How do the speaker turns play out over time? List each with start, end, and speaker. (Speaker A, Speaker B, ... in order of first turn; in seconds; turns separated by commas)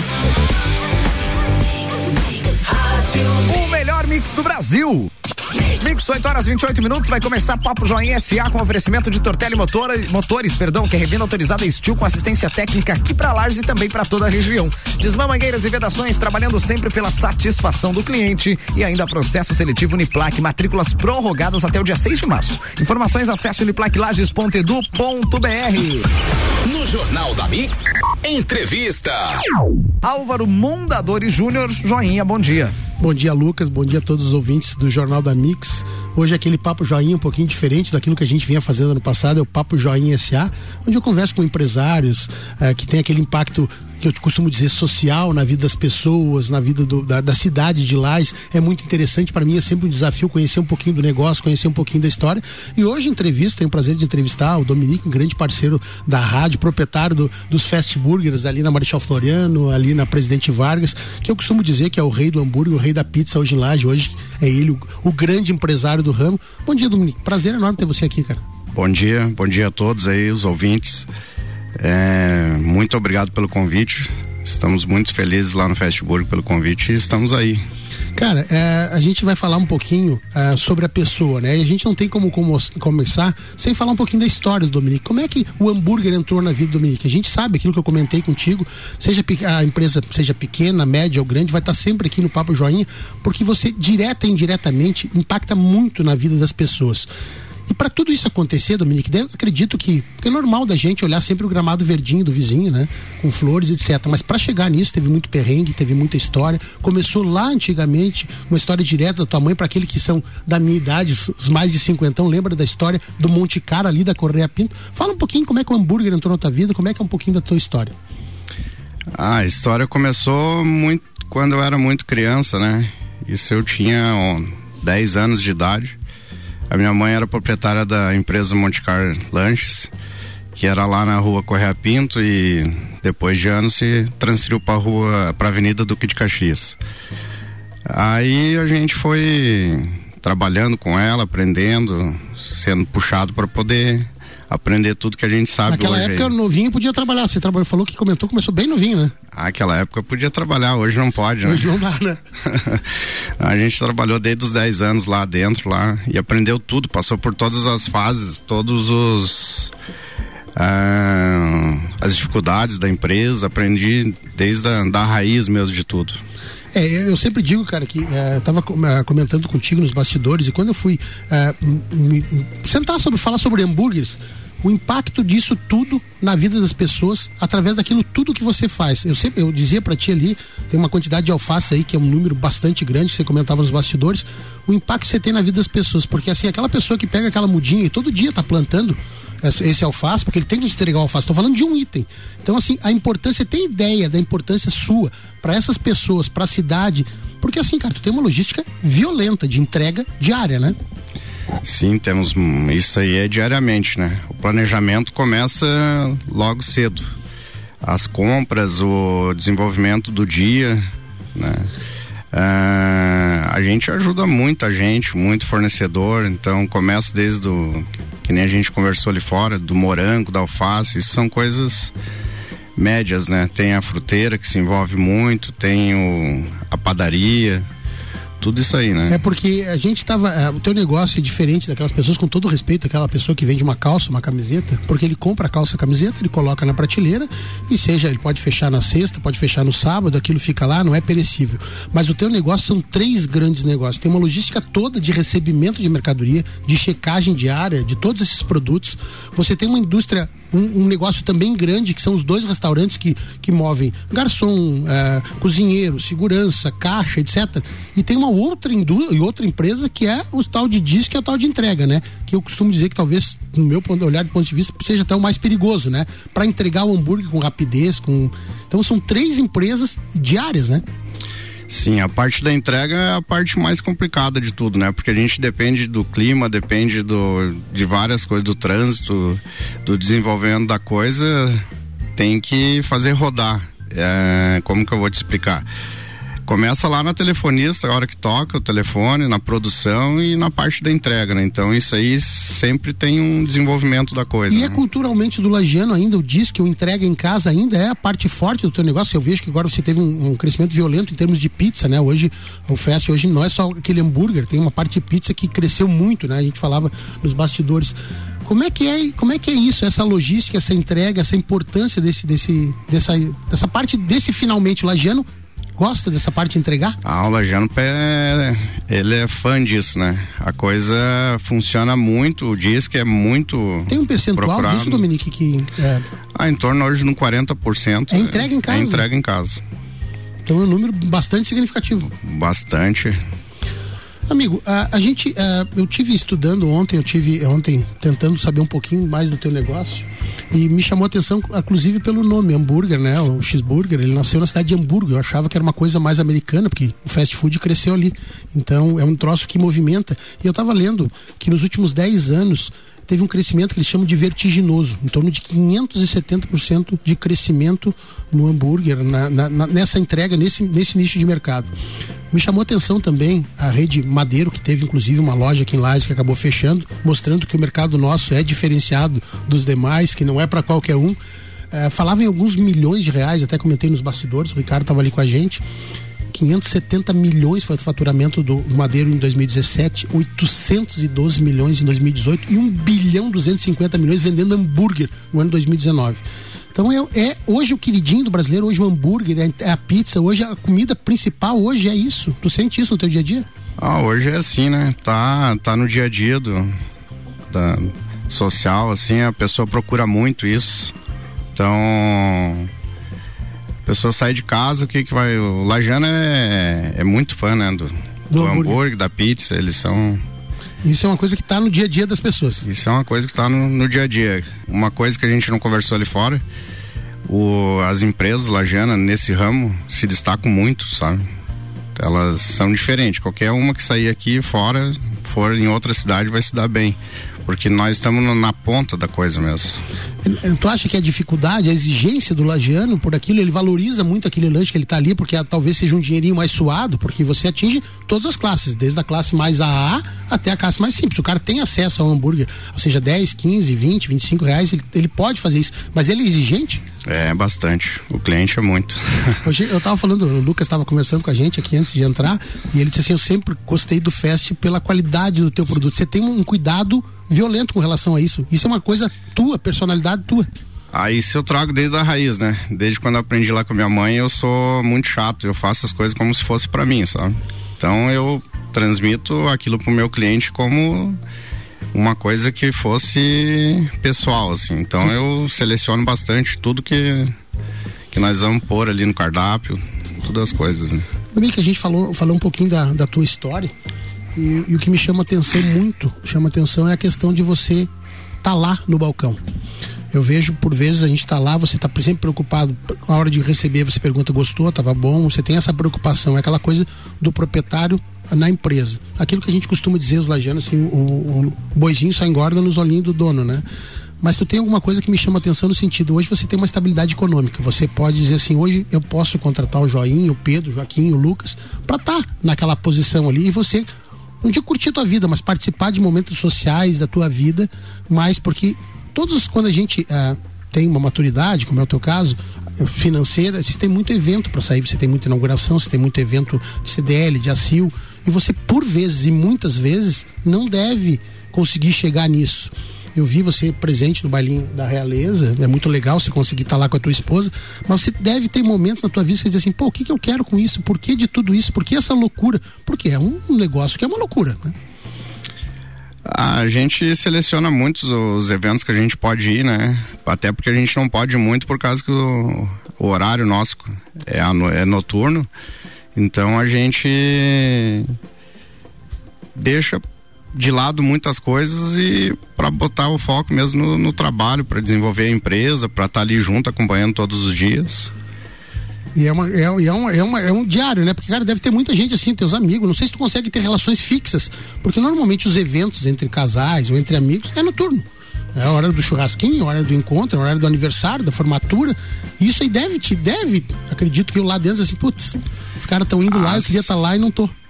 Speaker A: 3.2-5.1, Speaker A: 5.8-26.1, Speaker B: 26.6-29.4, Speaker A: 30.0-32.7, Speaker C: 33.0-68.4, Speaker D: 68.7-71.1, Speaker D: 71.8-77.6, Speaker C: 78.2-97.1, Speaker C: 97.7-118.0, Speaker D: 119.1-126.0, Speaker D: 126.7-129.9, Speaker D: 130.5-136.8, Speaker D: 137.9-146.3, Speaker C: 145.7-149.1, Speaker D: 149.3-151.7, Speaker C: 151.4-152.2, Speaker D: 152.4-159.7, Speaker D: 160.6-166.2, Speaker C: 166.7-200.8, Speaker D: 201.6-207.2, Speaker D: 207.8-211.7, Speaker D: 212.3-221.9, Speaker D: 222.8-227.7, Speaker D: 228.4-229.2, Speaker C: 229.1-270.8, Speaker D: 271.7-281.6, Speaker D: 282.2-285.7, Speaker D: 286.5-294.8, Speaker C: 294.5-317.0, Speaker D: 317.0-325.1, Speaker C: 323.9-326.0, Speaker D: 326.4-329.6, Speaker C: 328.1-329.1, Speaker C: 330.4-332.1, Speaker D: 332.1-333.2, Speaker C: 334.3-361.7, Speaker C: 362.3-371.2, Speaker C: 371.7-375.6, Speaker C: 376.3-386.2, Speaker C: 386.7-393.5, Speaker D: 393.8-396.8, Speaker D: 397.5-400.9, Speaker D: 401.6-402.7, Speaker D: 403.9-410.2, Speaker C: 408.3-408.8, Speaker C: 410.8-412.6, Speaker D: 412.6-416.4, Speaker D: 417.3-421.2, Speaker D: 421.9-429.8, Speaker C: 430.2-446.8, Speaker D: 447.1-449.4, Speaker C: 449.4-460.5, Speaker D: 460.9-471.2, Speaker D: 471.9-477.4, Speaker D: 478.1-481.1, Speaker C: 481.3-483.7, Speaker C: 484.4-487.9, Speaker C: 488.4-489.4, Speaker C: 490.1-503.6, Speaker C: 504.2-513.9, Speaker C: 514.4-544.8, Speaker D: 546.3-555.5, Speaker D: 556.1-558.1, Speaker D: 559.5-560.0, Speaker D: 560.5-568.1, Speaker C: 569.1-587.5, Speaker D: 586.3-586.9